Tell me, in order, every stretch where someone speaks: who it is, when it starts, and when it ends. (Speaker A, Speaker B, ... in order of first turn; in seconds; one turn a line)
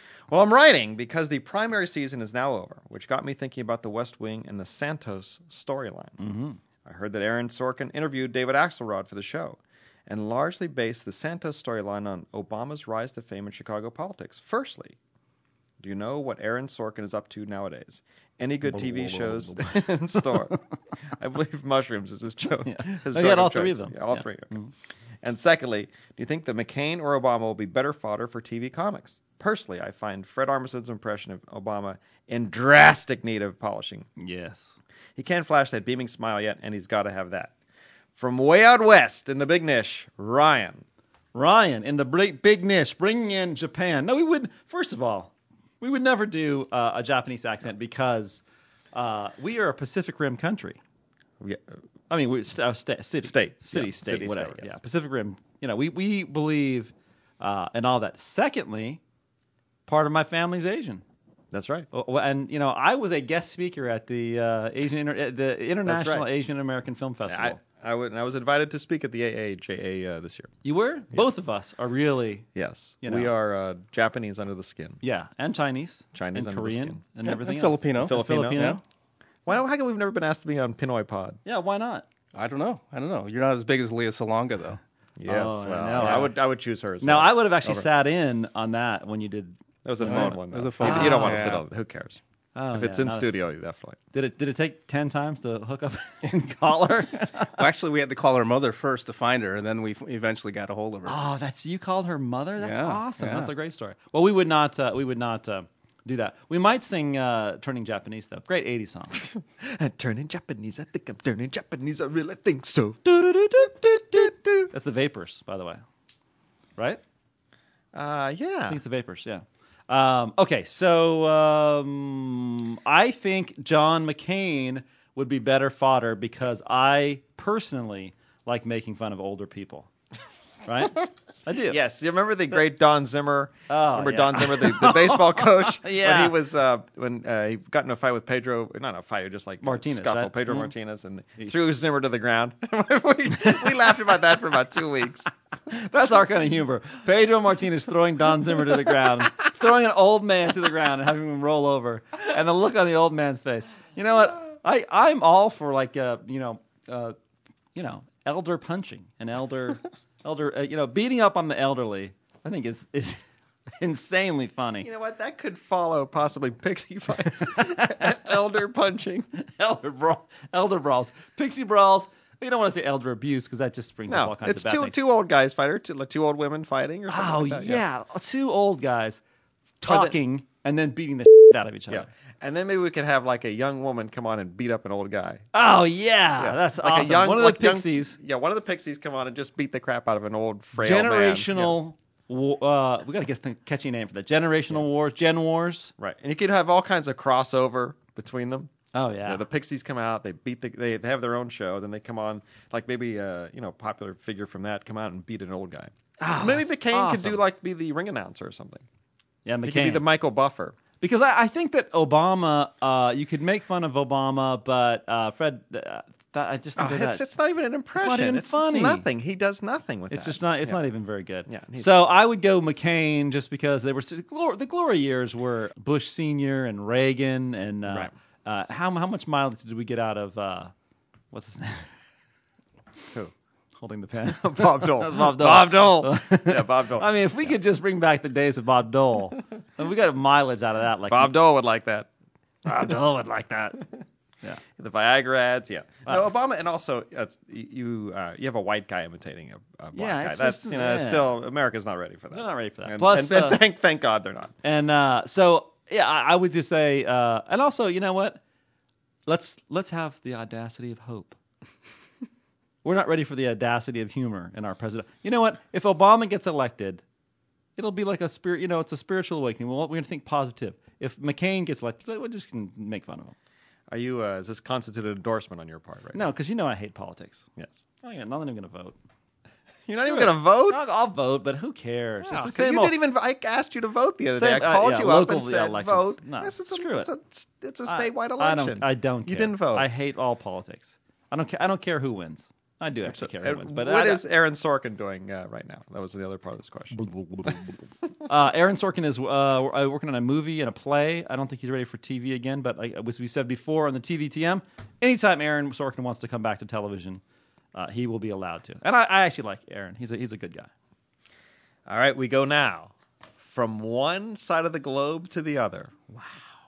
Speaker A: 0.3-6.2
Speaker B: 6.2-6.6
Speaker A: 6.8-15.0
Speaker A: 15.8-20.6
Speaker B: 18.7-20.6
Speaker A: 21.2-24.6
Speaker B: 22.6-24.7
Speaker A: 25.2-34.1
Speaker B: 34.2-34.8
Speaker A: 35.1-37.5
Speaker A: 38.1-40.8
Speaker B: 41.3-48.4
Speaker B: 48.9-50.8
Speaker B: 52.1-59.0
Speaker A: 53.2-54.8
Speaker B: 59.9-61.0
Speaker A: 61.5-61.9
Speaker B: 61.9-67.6
Speaker A: 65.8-66.3
Speaker A: 67.3-70.5
Speaker B: 70.6-72.5
Speaker A: 72.5-75.0
Speaker B: 73.0-73.3
Speaker B: 75.0-78.8
Speaker A: 76.1-77.0
Speaker C: 77.2-78.8
Speaker A: 78.0-78.8
Speaker A: 79.5-81.4
Speaker B: 81.4-82.0
Speaker C: 82.3-84.8
Speaker A: 85.2-87.9
Speaker B: 85.2-86.3
Speaker B: 87.0-91.6
Speaker A: 89.8-92.2
Speaker C: 90.0-91.6
Speaker B: 92.5-93.3
Speaker A: 92.7-94.0
Speaker B: 94.1-97.5
Speaker C: 97.6-101.2
Speaker B: 101.0-109.2
Speaker C: 102.6-103.5
Speaker A: 109.1-114.7
Speaker B: 113.0-115.8
Speaker A: 117.9-118.8
Speaker B: 118.7-129.9
Speaker B: 130.7-131.8
Speaker A: 131.7-145.3
Speaker B: 133.7-136.3
Speaker B: 139.6-140.7
Speaker B: 145.7-157.1
Speaker B: 157.7-163.2
Speaker B: 163.8-164.9
Speaker A: 164.8-169.3
Speaker B: 167.7-168.2
Speaker B: 169.4-175.0
Speaker A: 174.1-177.8
Speaker B: 177.1-179.2
Speaker B: 179.8-182.1
Speaker A: 179.8-180.1
Speaker A: 181.9-185.4
Speaker B: 185.5-188.2
Speaker A: 186.4-191.8
Speaker B: 190.8-195.9
Speaker A: 196.0-198.7
Speaker B: 198.9-199.4
Speaker A: 199.2-208.8
Speaker B: 206.2-207.4
Speaker B: 209.4-210.1
Speaker A: 209.6-210.8
Speaker B: 211.0-217.2
Speaker A: 216.8-220.8
Speaker B: 217.9-219.0
Speaker B: 220.1-230.7
Speaker A: 221.5-221.9
Speaker A: 227.8-228.1
Speaker B: 231.3-231.9
Speaker B: 233.8-241.4
Speaker A: 234.2-237.5
Speaker A: 241.1-242.1
Speaker B: 242.6-243.8
Speaker A: 244.8-254.5
Speaker B: 249.9-251.3
Speaker B: 252.3-253.6
Speaker B: 254.6-258.4
Speaker B: 259.3-261.4
Speaker B: 262.8-267.0
Speaker B: 267.8-273.3
Speaker A: 273.9-276.2
Speaker B: 276.1-277.4
Speaker B: 278.0-278.9
Speaker A: 279.9-280.8
Speaker B: 279.9-283.0
Speaker A: 282.2-289.9
Speaker B: 284.3-287.1
Speaker B: 287.9-294.2
Speaker A: 293.0-297.6
Speaker B: 296.9-297.7
Speaker B: 298.2-307.2
Speaker B: 307.7-310.7
Speaker A: 311.9-315.9
Speaker B: 316.1-316.4